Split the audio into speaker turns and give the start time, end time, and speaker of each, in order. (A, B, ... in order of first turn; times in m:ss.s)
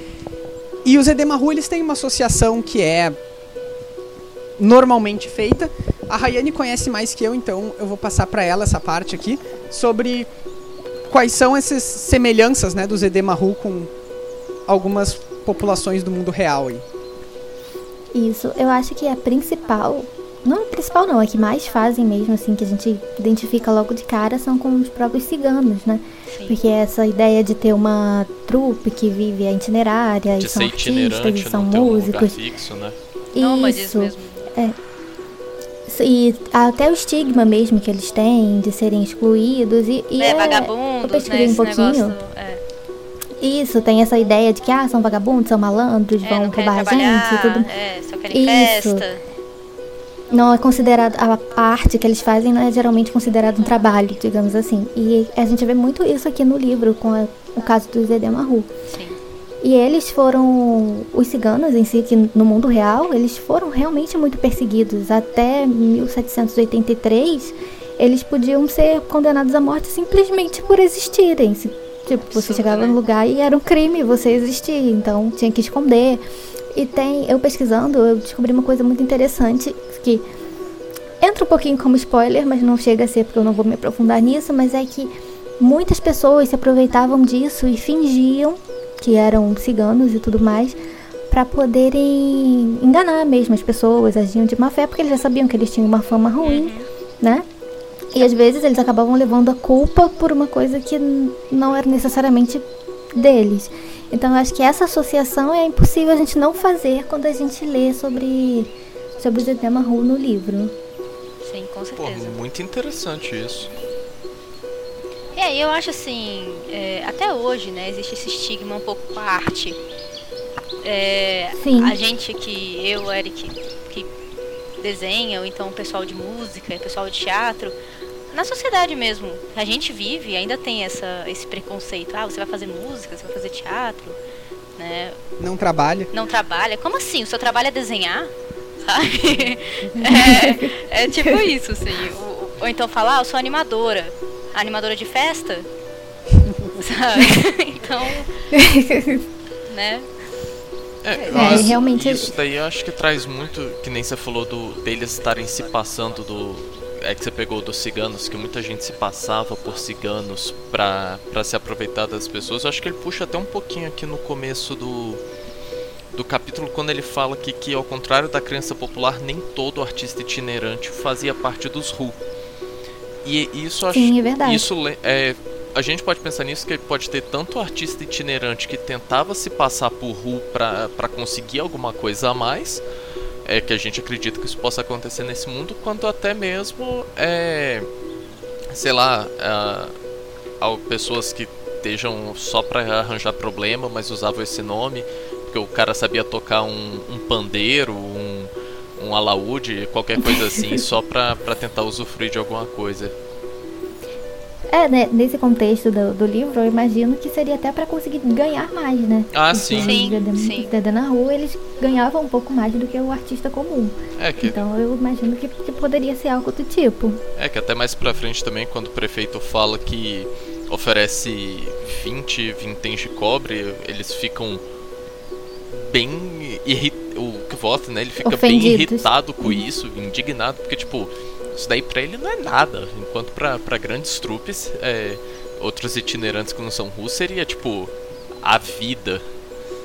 0:00.8-0:03.2 A
0:04.6-0:10.3 A
0:11.1-0:13.9 A
0:14.7-0:16.9 A
0:18.1-0:32.4 B
0:26.3-0:26.6 C
0:30.4-0:33.0 D
0:33.3-0:34.8 B
0:33.4-0:34.5 C
0:35.9-0:42.2 B
0:40.2-0:42.6 C
0:43.4-0:47.7 B
0:46.2-0:49.2 C
0:48.3-0:49.0 B
0:50.3-0:58.7 B
0:58.9-0:59.2 C
0:59.6-1:16.2 B
1:12.3-1:13.0 C
1:16.7-1:20.2 B
1:21.2-1:30.8 B
1:31.3-1:37.5 B
1:36.4-1:36.9 C
1:38.1-1:50.7 B
1:51.4-1:52.4 C
1:52.0-1:53.7 D
1:55.4-1:59.8 C
2:00.8-2:04.1 C
2:01.6-2:02.0 B
2:04.8-2:07.8 C
2:08.3-2:14.2 C
2:14.8-2:15.2 C
2:15.4-2:16.1 A
2:16.1-2:25.7 C
2:20.1-2:20.7 B
2:26.8-2:28.4 C
2:28.5-2:29.2 B
2:29.7-2:30.1 C
2:31.0-2:45.2 D
2:31.2-2:31.8 A
2:31.3-2:32.3 B
2:46.1-2:52.2 D
2:53.2-3:02.8 D
2:53.9-2:54.7 B
3:03.4-3:07.9 D
3:08.7-3:09.9 D
3:10.6-3:23.1 D
3:20.2-3:20.8 B
3:24.7-3:37.2 B
3:29.3-3:30.0 D
3:29.8-3:30.7 C
3:34.2-3:34.6 D
3:37.4-3:44.6 D
3:45.7-3:59.2 D
3:48.2-3:49.6 B